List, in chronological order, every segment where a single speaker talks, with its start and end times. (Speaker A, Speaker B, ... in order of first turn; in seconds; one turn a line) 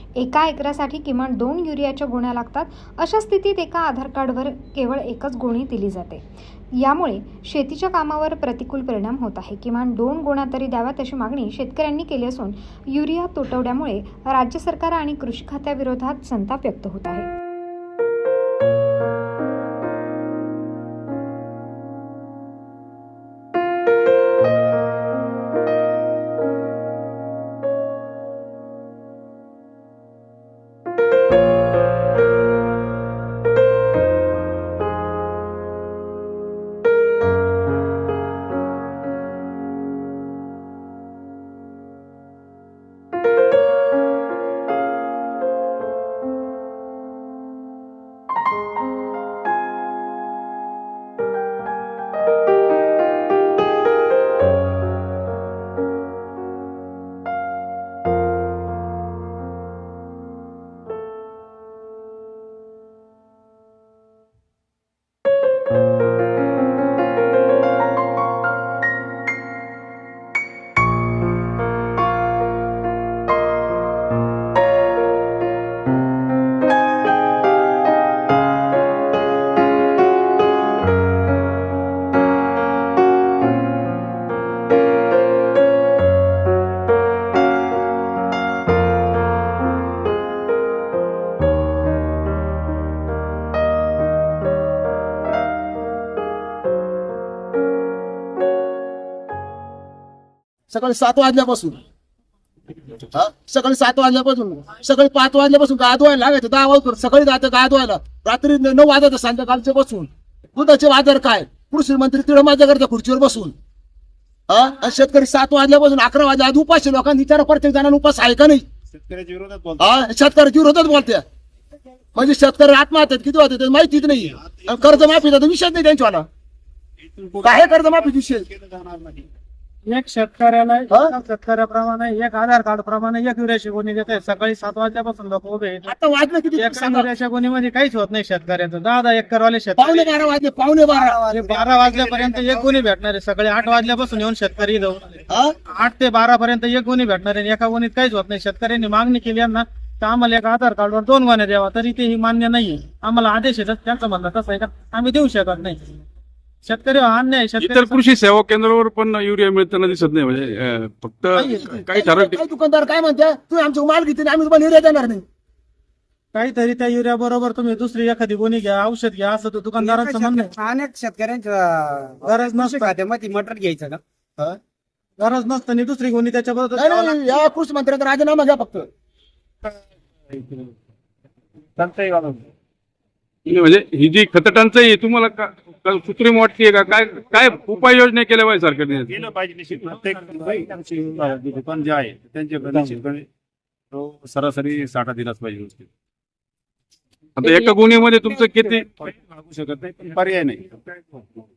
Speaker A: 0.2-17.3
Speaker B: 100.7-101.8
Speaker B: 103.1-113.5
Speaker B: 114.5-118.7
Speaker C: 118.9-119.8
Speaker B: 119.8-121.2
Speaker B: 122.1-126.3
Speaker C: 127.2-127.6
Speaker B: 127.4-128.5
Speaker C: 128.5-129.2
Speaker D: 129.8-135.9
Speaker B: 135.9-137.1
Speaker D: 136.6-140.1
Speaker B: 139.8-141.2
Speaker D: 141.2-155.8
Speaker E: 141.2-141.5
Speaker B: 145.3-145.5
Speaker D: 156.6-158.0
Speaker F: 157.6-162.4
Speaker B: 161.3-165.2
Speaker D: 161.4-161.7
Speaker D: 166.3-170.5
Speaker E: 169.8-174.0
Speaker D: 172.2-173.0
Speaker D: 175.2-177.4
Speaker B: 176.7-178.9
Speaker C: 180.3-180.7
Speaker C: 181.8-182.4
Speaker F: 183.4-189.2
Speaker C: 189.1-193.2
Speaker C: 193.9-195.9
Speaker F: 197.4-198.9
Speaker C: 199.0-201.2